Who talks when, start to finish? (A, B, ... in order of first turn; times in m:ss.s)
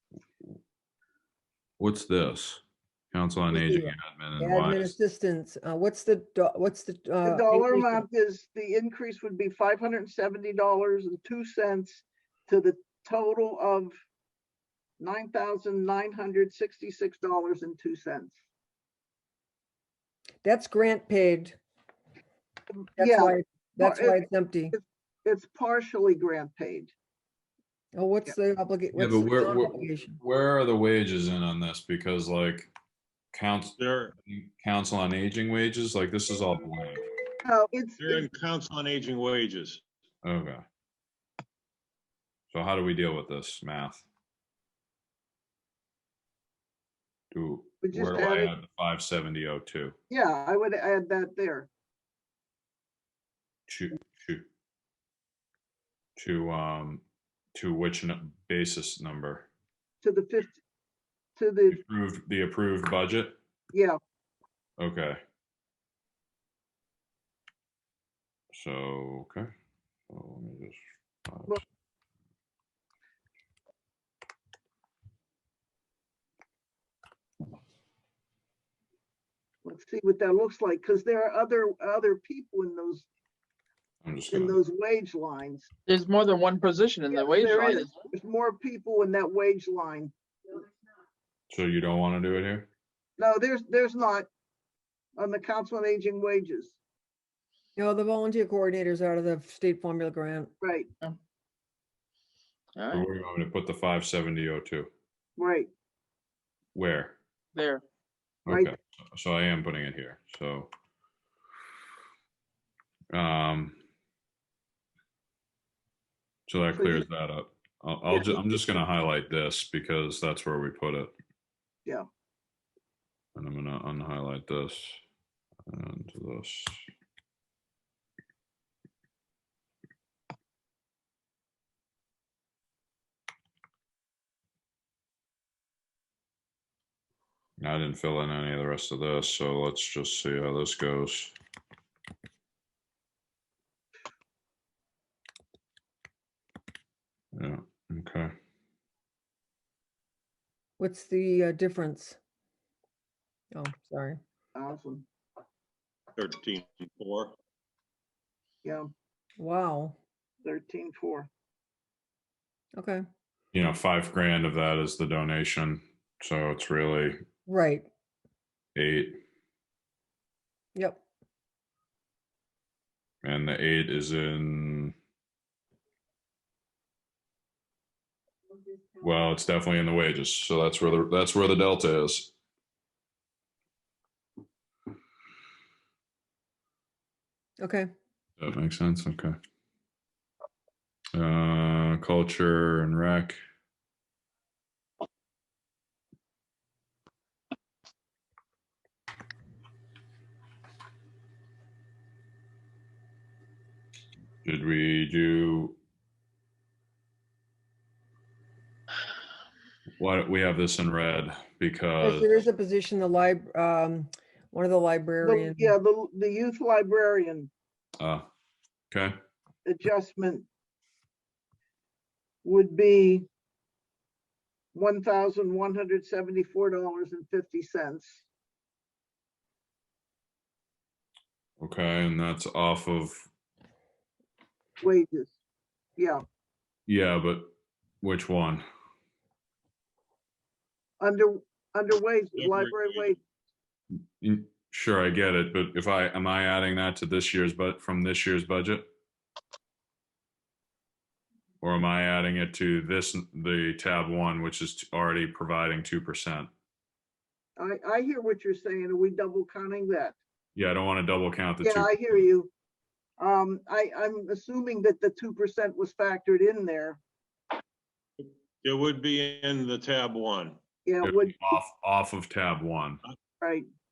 0:01.8-0:04.9 A
0:03.5-0:08.0 B
0:07.2-0:13.9 C
0:15.0-0:18.4 C
0:20.4-0:21.6 B
0:23.0-0:24.7 B
0:23.0-0:26.9 C
0:27.9-0:30.2 B
0:28.9-0:32.7 A
0:33.3-0:37.0 A
0:33.8-0:34.1 D
0:37.4-0:38.2 C
0:38.0-0:39.8 D
0:40.2-0:40.6 A
0:42.5-0:44.0 A
0:47.3-0:49.9 A
0:47.8-0:48.5 C
0:50.1-0:51.7 C
0:53.7-0:54.4 A
0:56.2-0:57.0 A
0:57.5-0:59.5 A
1:00.0-1:00.6 C
1:01.4-1:01.8 C
1:01.7-1:03.4 A
1:03.7-1:04.0 C
1:04.8-1:05.2 A
1:08.5-1:09.5 A
1:10.1-1:11.6 A
1:19.6-1:23.0 C
1:24.0-1:24.6 A
1:24.3-1:25.7 C
1:25.9-1:27.9 E
1:27.1-1:30.1 C
1:31.5-1:32.7 A
1:33.2-1:34.3 C
1:35.2-1:36.8 C
1:37.8-1:40.5 B
1:40.6-1:40.9 C
1:42.7-1:43.0 E
1:42.9-1:44.9 A
1:45.4-1:45.7 C
1:46.7-1:47.2 A
1:47.5-1:47.8 E
1:48.4-1:50.7 A
1:53.1-1:53.8 A
1:56.5-2:01.1 A
1:56.7-1:57.0 C
2:03.4-2:05.0 A
2:05.7-2:06.8 A
2:17.6-2:21.3 A
2:27.3-2:28.3 A
2:30.8-2:32.2 B
2:33.5-2:34.2 B
2:34.5-2:35.0 C
2:36.2-2:37.3 D
2:38.6-2:38.9 C
2:39.4-2:40.0 B
2:40.4-2:41.3 C
2:42.8-2:43.0 B
2:43.5-2:47.2 A
2:47.5-2:47.9 B
2:48.8-2:49.2 A
2:50.7-2:51.0 B
2:53.2-2:54.9 A
2:59.0-3:02.3 A
3:07.6-3:07.9 B
3:08.4-3:09.4 A
3:11.1-3:13.4 A
3:24.4-3:25.8 A
3:30.0-3:32.3 A
3:32.0-3:35.7 B
3:35.2-3:37.5 C
3:38.0-3:38.3 A
3:39.6-3:40.4 C
3:42.4-3:43.3 C
3:44.7-3:48.2 C
3:51.6-3:53.3 A
3:54.8-3:55.3 C
3:56.0-3:56.2 C
3:56.9-3:57.5 A
3:58.0-3:58.6 A
4:01.0-4:03.2 C
4:02.3-4:03.2 D
4:04.2-4:08.9 A
4:11.6-4:16.5 A
4:17.6-4:20.2 C
4:20.5-4:22.2 A
4:21.6-4:22.5 C
4:23.2-4:27.0 C
4:28.6-4:30.6 D
4:30.8-4:31.6 C
4:31.0-4:33.0 A
4:33.4-4:33.6 C